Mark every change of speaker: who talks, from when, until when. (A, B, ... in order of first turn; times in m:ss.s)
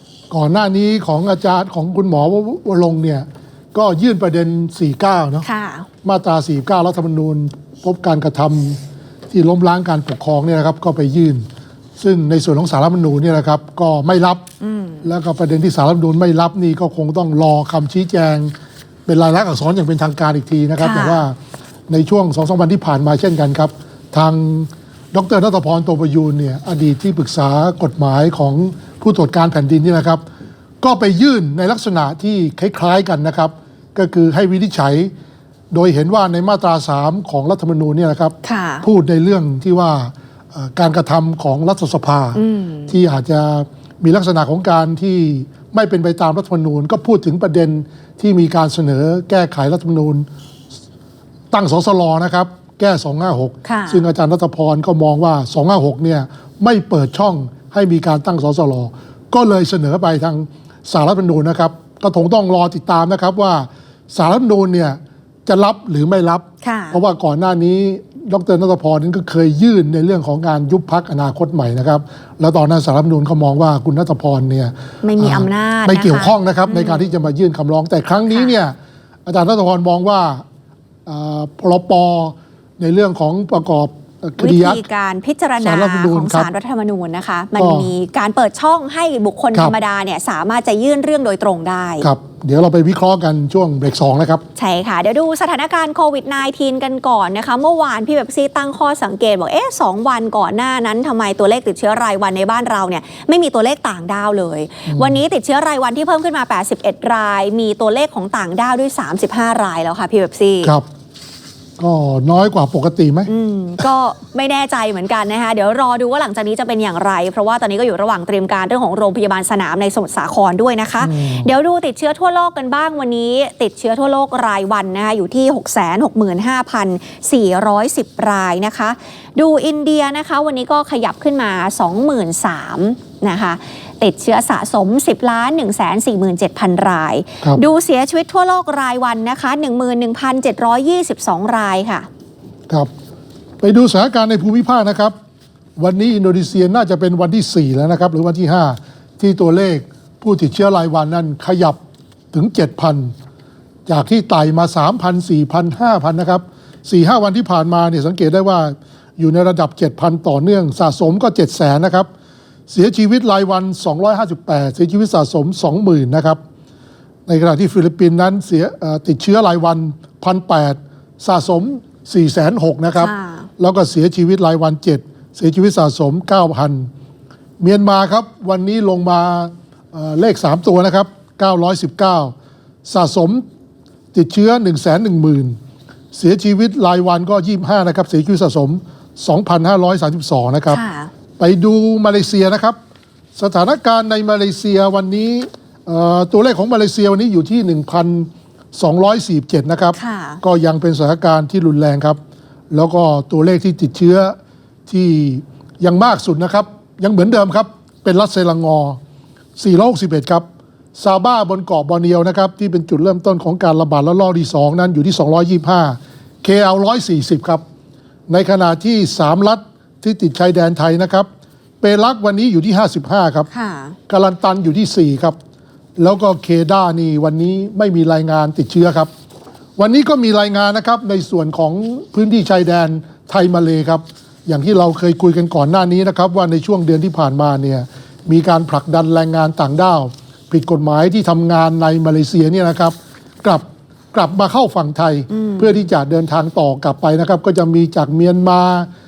0:00.3-0:05.4 A
0:05.4-0:05.9 B
0:06.0-0:08.8 A
0:09.3-0:11.4 A
0:12.0-0:14.5 A
0:14.6-0:15.0 B
0:15.0-0:18.5 A
0:19.1-0:21.4 A
0:20.8-0:21.2 B
0:21.9-0:30.2 A
0:30.8-0:35.1 A
0:35.7-0:50.2 A
0:38.4-0:38.8 B
0:42.4-0:42.9 B
0:51.5-1:20.4 A
0:53.6-0:54.0 B
1:06.6-1:07.0 B
1:15.0-1:17.1 B
1:21.0-1:24.8 A
1:24.4-1:32.0 B
1:25.6-1:26.5 A
1:27.6-1:27.9 A
1:32.0-1:34.4 A
1:34.6-1:50.7 B
1:44.9-1:45.2 A
1:51.8-1:53.3 A
1:53.3-2:22.1 B
2:01.0-2:01.5 A
2:23.6-2:25.1 A
2:25.8-2:31.8 A
2:32.3-2:33.1 A
2:33.8-2:42.1 A
2:42.7-2:46.4 A
2:47.3-2:56.9 A
2:53.0-2:53.5 B
2:57.6-3:02.3 A
3:02.8-3:03.4 A
3:04.1-3:05.6 A
3:06.1-3:10.8 A
3:10.7-3:11.1 B
3:11.4-3:12.8 A
3:13.3-3:22.2 A
3:19.9-3:20.4 B
3:22.7-3:24.4 A
3:24.9-3:29.0 A
3:29.6-3:30.4 A
3:31.0-3:37.6 A
3:38.3-3:41.3 A
3:41.8-3:43.5 A
3:43.5-3:44.0 B
3:44.1-3:45.4 A
3:46.0-3:49.1 A
3:49.8-4:08.9 A
4:05.3-4:05.7 B